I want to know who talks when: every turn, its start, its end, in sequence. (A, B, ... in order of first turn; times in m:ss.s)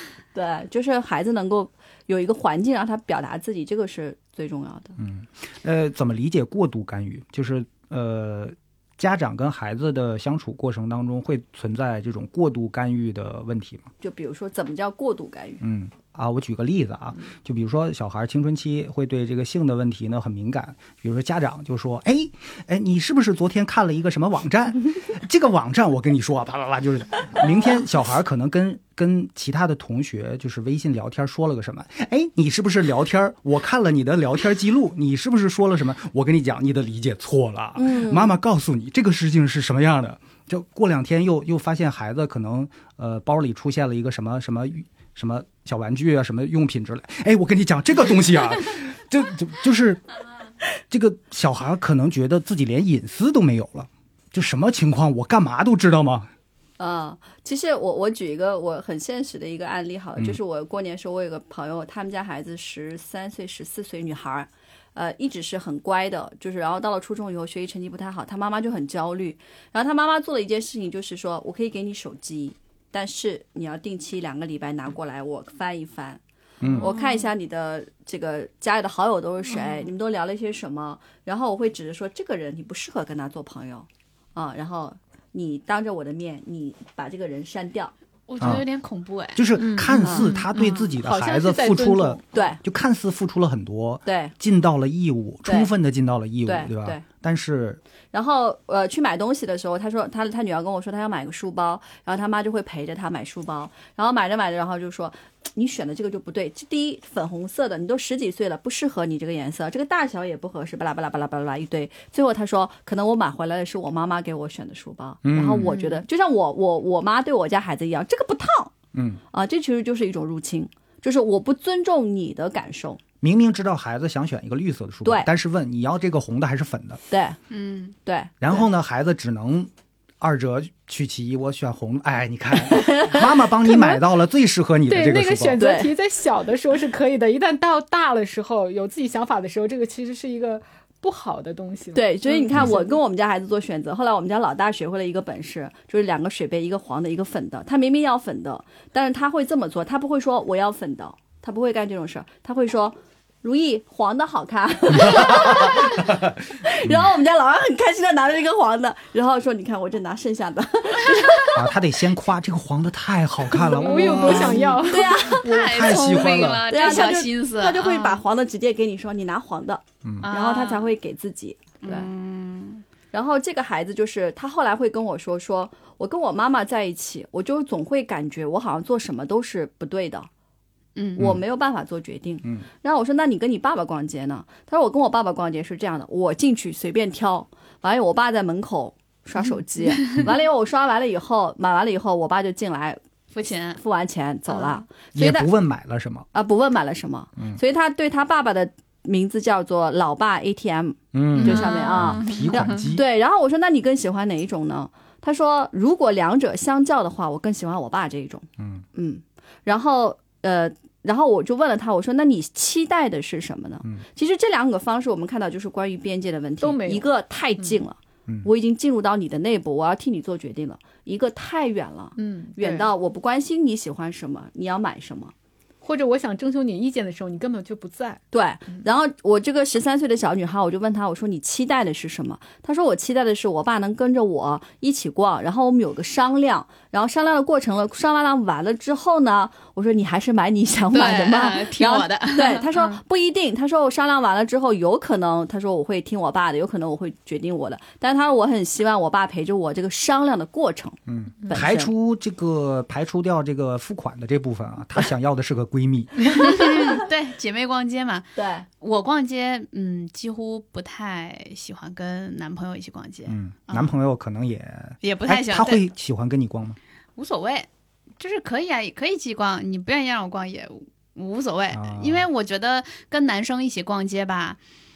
0:00.3-0:04.9 A
0:05.0-0:13.9 B
0:14.0-0:15.6 A
0:15.6-0:50.0 B
0:37.8-0:38.3 A
0:50.9-0:56.3 B
0:56.8-1:16.2 A
1:16.6-1:16.9 B
1:16.7-1:27.9 A
1:16.8-1:17.2 C
1:28.3-1:29.5 C
1:28.4-1:28.6 B
1:29.4-1:37.8 B
1:29.6-1:32.2 D
1:30.0-1:30.3 A
1:30.5-1:30.9 C
1:32.3-1:32.6 A
1:34.0-1:34.3 A
1:35.4-1:35.7 A
1:36.4-1:37.0 A
1:38.1-1:58.7 A
1:55.2-1:55.7 B
1:55.5-1:56.0 C
1:58.9-1:59.2 B
1:59.3-2:03.0 A
2:03.2-2:07.0 B
2:07.1-2:07.4 A
2:07.5-2:08.0 C
2:08.0-2:08.6 A
2:08.4-2:09.7 B
2:10.2-2:15.6 B
2:12.6-2:13.9 A
2:14.9-2:23.0 D
2:15.6-2:15.9 A
2:21.9-2:41.7 A
2:34.9-2:36.3 B
2:41.5-2:46.7 B
2:43.5-2:45.2 D
2:43.8-2:52.1 A
2:44.2-2:48.2 C
2:50.2-2:50.9 C
2:51.8-2:52.8 C
2:53.1-3:00.3 A
3:01.0-3:01.3 C
3:01.2-3:13.0 A
3:13.3-3:13.8 C
3:13.8-3:15.5 A
3:14.5-3:14.8 C
3:15.1-3:16.3 B
3:16.3-3:45.3 A
3:21.1-3:23.0 B
3:21.4-3:22.8 C
3:28.6-3:28.8 B
3:36.6-3:37.0 D
3:42.2-3:42.9 D
3:45.8-3:48.2 D
3:48.3-4:11.9 A
4:00.9-4:03.0 C
4:11.1-4:16.6 B
4:16.4-4:18.3 C
4:18.4-4:18.6 A
4:18.8-4:23.9 C
4:23.3-4:26.8 B
4:25.0-4:25.8 C
4:27.2-4:27.7 C
4:28.2-4:34.6 C
4:31.7-4:32.3 B